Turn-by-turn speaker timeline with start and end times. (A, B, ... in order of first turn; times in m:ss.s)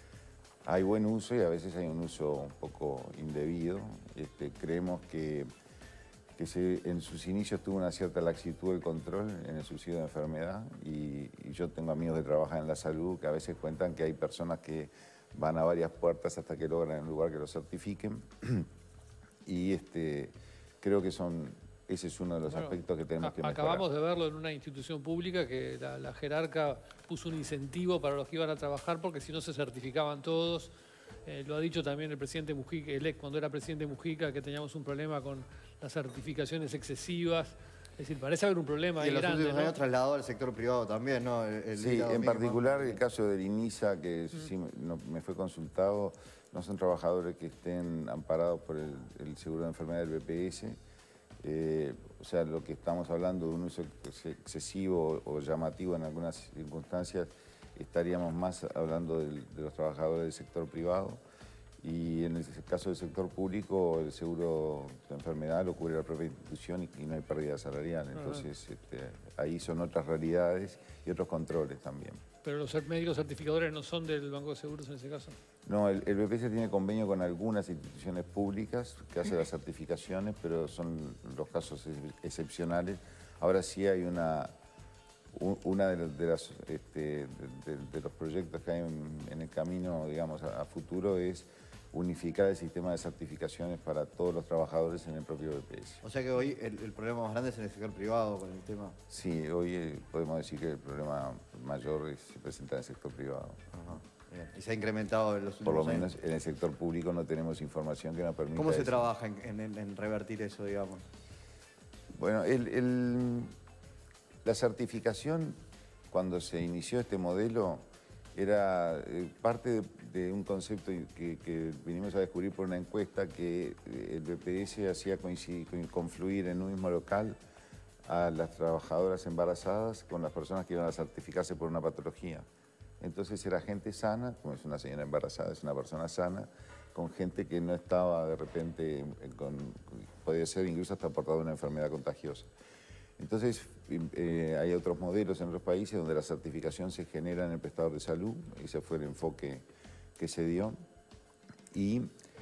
0:00.6-0:05.5 A
0:06.4-0:18.7 A
0:19.4-0:23.9 A
0:22.5-0:30.7 B
0:31.2-0:39.8 B
0:39.0-0:43.0 C
0:41.8-0:50.8 A
0:51.4-1:01.2 A
1:01.8-1:12.2 A
1:08.1-1:08.4 B
1:12.4-1:15.4 B
1:15.6-1:24.5 A
1:25.3-1:36.0 A
1:36.0-1:39.0 C
1:39.1-1:43.6 A
1:43.7-1:46.1 C
1:45.6-1:49.1 A
1:48.5-1:51.0 C
1:52.1-1:53.5 A
1:54.4-1:55.6 A
1:56.1-1:57.8 A
1:58.4-2:07.4 A
2:08.0-2:12.4 A
2:13.0-2:22.5 A
2:23.2-2:29.6 A
2:30.2-2:30.8 A
2:31.7-2:32.1 A